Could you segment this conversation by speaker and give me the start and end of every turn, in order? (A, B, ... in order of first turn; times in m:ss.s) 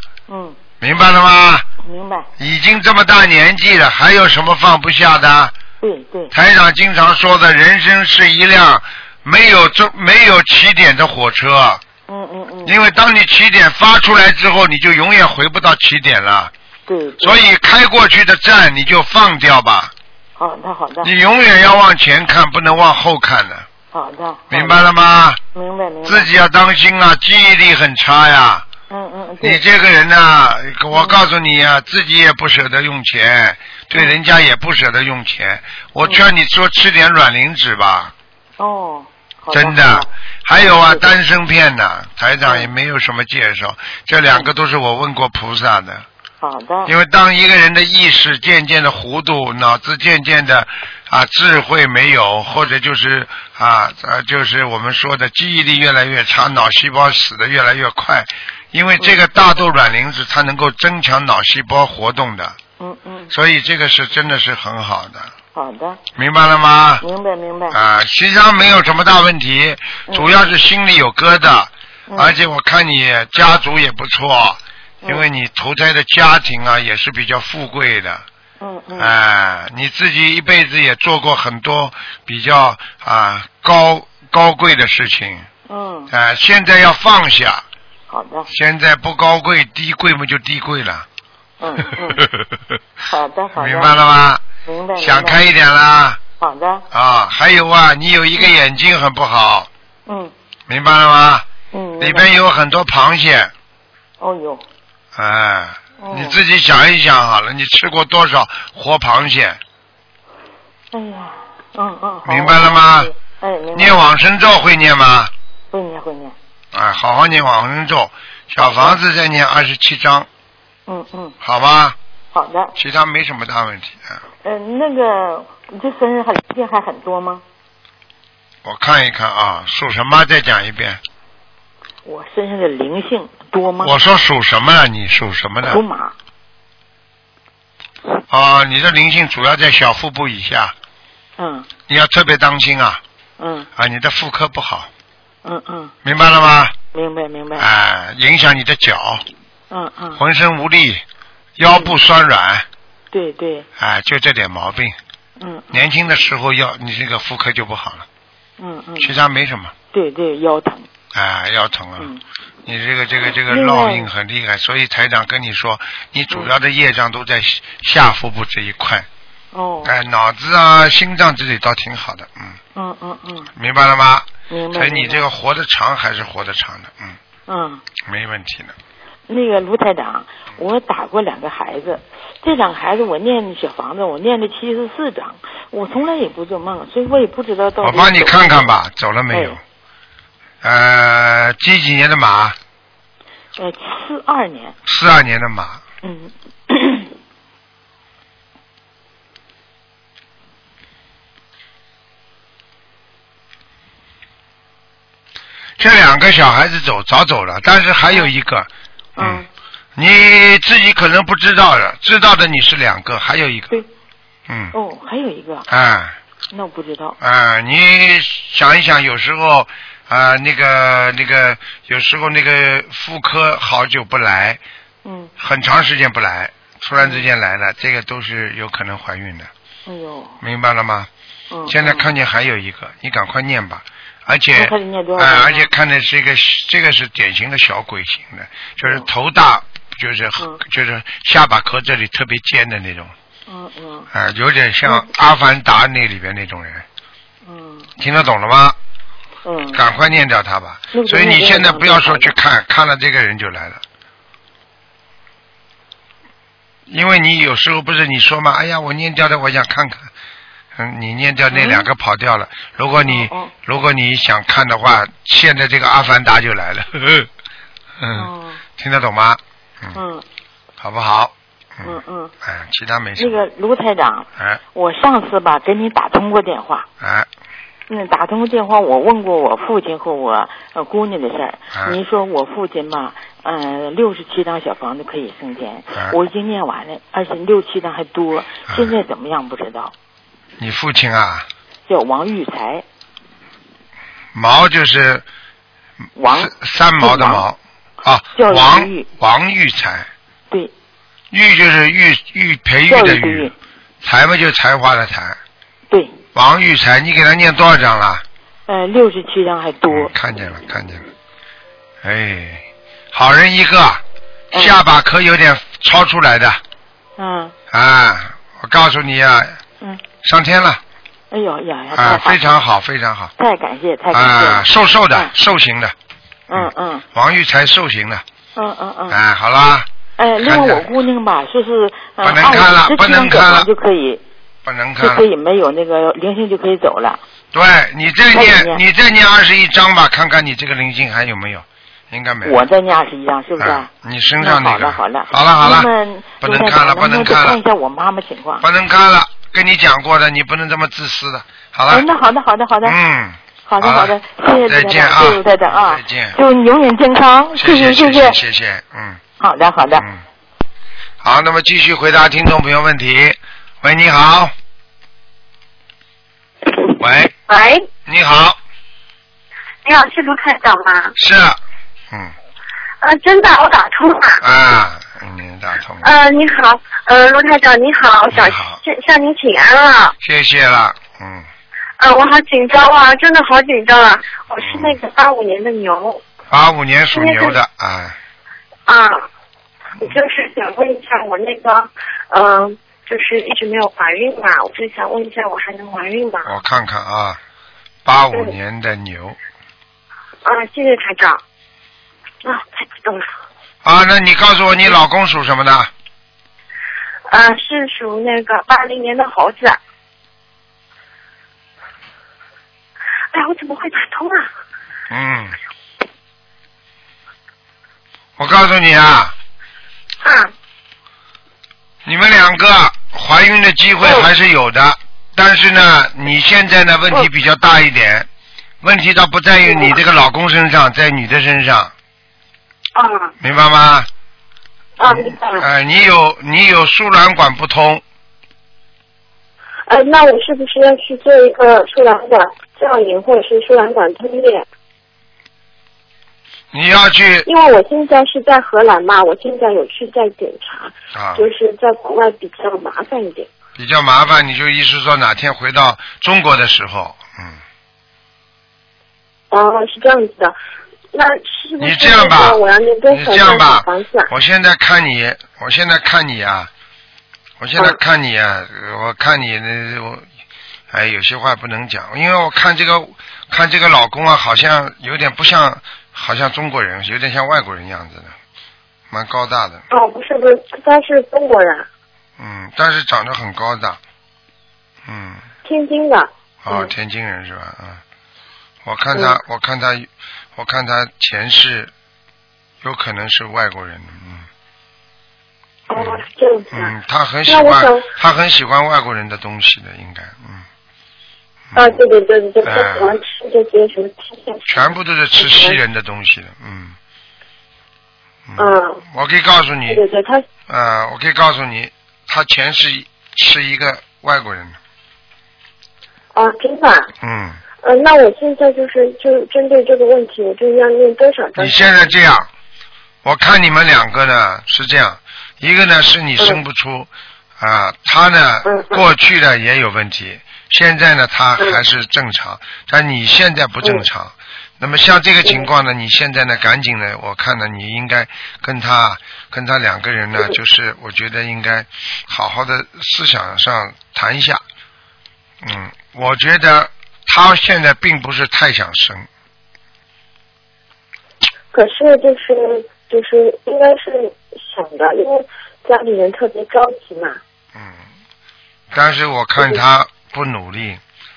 0:00.3-0:00.6 A
0:00.8-0:01.7 B
0:01.8-0:02.3 A
0:02.4-0:05.5 B
0:05.8-0:06.3 A
0:06.3-0:11.8 B
0:12.1-0:12.8 A
0:12.6-0:16.5 B
0:16.9-0:17.4 A
0:17.2-0:19.9 B
0:20.4-0:21.1 A
0:21.0-0:23.7 B
0:23.9-0:24.9 A
0:24.5-0:25.4 B
0:25.5-0:26.3 A
0:26.0-0:28.7 B
0:28.9-0:29.6 A
0:29.4-0:38.1 B
0:30.9-0:31.2 A
0:38.6-0:40.1 A
0:39.5-0:46.1 B
0:40.7-0:41.0 A
0:42.4-0:42.7 A
0:46.4-0:46.9 A
0:46.9-1:02.6 B
1:02.8-1:03.3 A
1:03.3-1:05.3 B
1:05.5-1:06.0 A
1:06.2-1:07.0 B
1:07.0-1:07.8 A
1:07.7-1:18.2 B
1:10.1-1:10.4 A
1:12.1-1:12.4 A
1:18.6-1:19.1 A
1:19.0-1:25.5 B
1:25.7-1:26.1 A
1:26.1-1:27.6 B
1:28.1-1:28.5 A
1:28.5-1:31.1 B
1:31.6-1:32.2 A
1:33.1-1:34.0 A
1:33.6-1:34.4 B
1:34.6-1:35.4 A
1:35.0-1:36.2 B
1:36.4-1:36.8 A
1:36.9-1:39.7 B
1:40.1-1:40.3 A
1:40.7-1:41.5 B
1:41.7-1:42.3 A
1:42.0-1:43.5 B
1:44.2-1:44.6 A
1:45.2-1:49.6 B
1:46.0-1:46.4 A
1:50.9-1:54.1 A
1:52.2-1:53.1 B
1:53.7-1:55.3 B
1:55.7-1:56.4 A
1:56.7-2:00.3 B
1:58.6-1:59.0 A
2:00.9-2:01.4 A
2:01.4-2:02.0 B
2:02.3-2:02.7 A
2:02.8-2:04.2 B
2:04.4-2:07.4 A
2:08.6-2:11.0 B
2:12.0-2:14.0 A
2:13.8-2:15.8 B
2:15.7-2:16.2 A
2:18.3-2:20.7 B
2:21.4-2:21.7 A
2:21.9-2:23.0 B
2:23.4-2:23.7 A
2:23.8-2:24.9 B
2:25.4-2:25.9 A
2:26.0-2:26.8 B
2:26.9-2:27.7 A
2:27.6-2:29.2 B
2:29.7-2:30.2 A
2:30.2-2:31.0 B
2:31.6-2:32.7 B
2:31.7-2:32.0 A
2:33.1-2:33.7 A
2:33.8-2:35.0 B
2:35.4-2:35.7 A
2:35.7-2:38.1 B
2:38.6-2:39.1 A
2:39.0-2:39.7 B
2:39.9-2:40.9 A
2:41.1-2:42.1 B
2:42.7-2:49.1 B
2:43.5-2:44.1 A
2:49.5-2:49.9 A
2:49.8-2:52.6 B
2:52.8-2:53.5 A
2:53.6-2:57.2 B
2:54.5-2:55.2 A
2:57.5-2:57.8 A
2:58.1-2:58.8 B
2:59.3-3:08.7 A
3:07.8-3:09.6 B
3:09.3-3:09.6 A
3:10.6-3:12.6 B
3:13.6-3:14.8 A
3:14.9-3:15.8 B
3:16.0-3:17.1 A
3:25.8-3:29.4 B
3:29.2-3:29.5 A
3:30.0-3:33.7 B
3:34.5-3:34.8 B
3:34.7-3:35.7 A
3:35.7-3:36.2 B
3:36.5-3:37.2 A
3:37.2-3:44.6 B
3:45.0-3:45.3 A
3:45.4-3:49.5 B
3:47.0-3:47.2 A
3:49.9-3:50.4 A
3:50.4-3:51.1 B
3:51.5-3:52.1 A
3:51.7-4:03.1 B
3:54.6-3:55.7 A
3:58.8-3:59.1 A
4:03.5-4:04.1 A
4:04.1-4:06.8 B
4:07.4-4:07.9 A
4:08.0-4:08.8 B
4:09.4-4:09.8 A
4:09.7-4:13.8 B
4:10.9-4:12.3 A
4:16.9-4:20.1 B
4:20.8-4:27.3 B
4:21.5-4:21.9 A
4:23.0-4:23.5 A
4:28.0-4:30.0 B
4:28.1-4:28.6 A
4:30.0-4:30.2 A
4:30.8-4:33.4 B
4:31.8-4:32.3 A
4:33.2-4:36.9 A
4:37.0-4:37.3 B
4:37.9-4:49.9 A
4:41.7-4:42.0 B
4:48.7-4:48.9 B
4:50.6-4:51.5 B
4:51.9-4:52.8 A
4:54.3-4:55.2 B
4:56.2-4:57.4 A
4:56.4-5:00.1 B
4:58.4-4:59.1 A
5:01.3-5:05.4 B
5:02.9-5:03.5 A
5:05.9-5:06.2 A
5:06.3-5:08.2 B
5:08.7-5:10.1 A
5:09.9-5:11.0 B
5:12.0-5:14.0 B
5:14.5-5:14.8 A
5:14.5-5:16.6 B
5:17.2-5:17.5 A
5:17.7-5:19.6 B
5:20.2-5:20.8 B
5:21.3-5:22.4 A
5:21.9-5:23.3 B
5:23.4-5:25.3 A
5:24.1-5:25.9 B
5:26.5-5:27.0 A
5:26.5-5:28.2 B
5:28.6-5:29.2 A
5:29.1-5:30.9 B
5:30.2-5:34.2 A
5:32.2-5:33.7 B
5:34.6-5:35.2 B
5:35.0-5:37.2 A
5:37.5-5:42.6 B
5:38.3-5:38.8 A
5:42.4-5:43.9 A
5:43.6-5:45.9 B
5:44.4-5:48.6 A
5:46.4-5:47.6 B
5:48.6-5:52.1 B
5:51.9-5:53.0 A
5:52.8-5:56.4 B
5:53.7-5:58.4 A
5:57.6-5:59.2 B
5:59.4-6:00.1 A
6:01.2-6:04.5 B
6:07.0-6:07.3 B
6:07.5-6:07.8 C
6:08.1-6:08.6 B
6:09.8-6:11.2 C
6:11.2-6:11.6 B
6:13.0-6:14.4 C
6:14.4-6:16.1 B
6:16.0-6:20.2 C
6:18.3-6:18.8 B
6:20.2-6:21.5 B
6:22.0-6:26.2 C
6:24.6-6:25.0 B
6:26.5-6:28.2 B
6:27.2-6:27.6 C
6:28.9-6:29.2 C
6:30.0-6:36.5 C
6:36.4-6:37.4 B
6:38.0-6:39.4 B
6:40.4-6:41.4 C
6:42.4-6:43.3 C
6:43.8-6:45.9 B
6:47.3-6:49.8 C
6:53.3-6:54.5 C
6:55.1-6:55.6 B
6:58.4-6:59.3 B
7:00.2-7:00.5 C
7:02.0-7:08.3 B
7:08.8-7:11.9 B
7:09.7-7:10.0 C
7:13.0-7:13.3 C
7:13.4-7:14.1 B
7:15.0-7:15.7 C
7:15.1-7:18.0 B
7:19.9-7:24.7 C
7:26.7-7:27.5 B
7:27.5-7:33.5 C
7:31.1-7:31.5 B
7:33.8-7:37.6 B
7:39.5-7:40.6 C
7:41.1-7:44.3 C
7:41.8-7:46.7 B
7:47.6-7:50.2 B
7:50.9-7:58.4 B
7:59.1-7:59.8 B
7:59.9-8:01.9 C
8:02.4-8:04.0 B
8:05.1-8:05.4 B
8:05.6-8:06.9 C
8:06.6-8:08.0 B
8:08.8-8:11.9 B
8:12.8-8:14.5 B
8:15.9-8:16.9 C
8:15.9-8:20.7 B
8:17.5-8:18.1 C
8:21.7-8:22.0 B
8:21.8-8:25.8 C
8:22.6-8:23.1 B
8:24.7-8:27.0 B
8:28.5-8:30.0 B
8:28.6-8:29.0 C
8:29.9-8:30.4 C
8:30.7-8:34.8 B
8:36.3-8:37.1 C
8:37.2-8:37.6 B
8:37.8-8:42.1 C
8:41.6-8:42.5 B
8:43.2-9:04.6 B
8:48.7-8:49.0 C
9:05.6-9:09.3 B
9:11.7-9:17.4 C
9:17.7-9:18.0 B
9:18.9-9:21.0 B